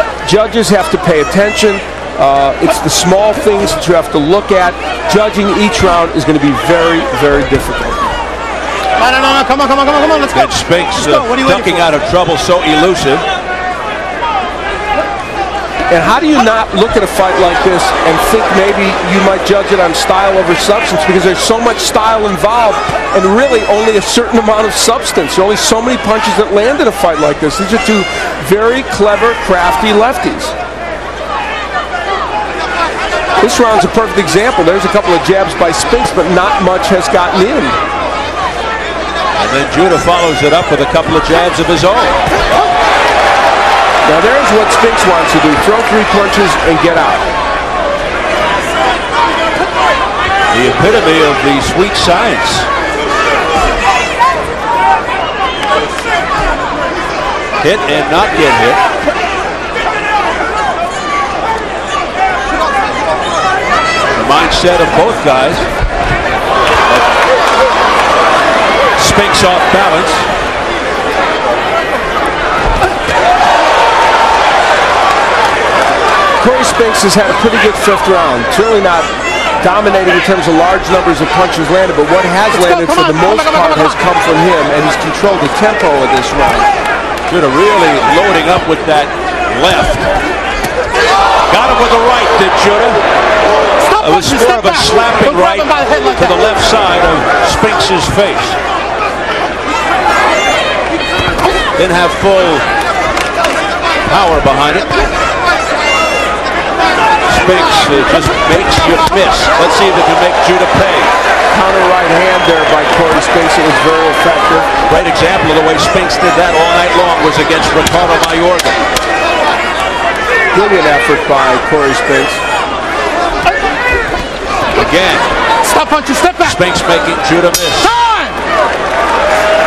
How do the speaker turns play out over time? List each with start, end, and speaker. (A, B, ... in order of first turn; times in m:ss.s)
0:00.2-0:08.0 A
0:09.0-0:11.9 B
0:10.3-0:13.2 C
0:15.9-0:30.6 A
0:33.4-0:37.8 A
0:39.4-0:42.2 C
0:44.0-0:47.2 A
0:50.5-0:52.7 C
0:57.6-0:58.8 C
1:04.1-1:05.7 C
1:09.0-1:10.3 C
1:16.4-1:26.7 A
1:22.5-1:24.0 B
1:27.3-1:30.1 C
1:31.5-1:33.0 C
1:33.8-1:36.6 B
1:34.0-1:38.6 C
1:41.8-1:42.6 C
1:44.1-1:45.0 C
1:47.3-1:51.1 C
1:51.5-1:54.7 A
1:54.9-1:58.8 C
2:00.5-2:02.4 A
2:04.7-2:05.3 C
2:05.6-2:06.6 B
2:06.4-2:08.0 C
2:07.8-2:08.4 B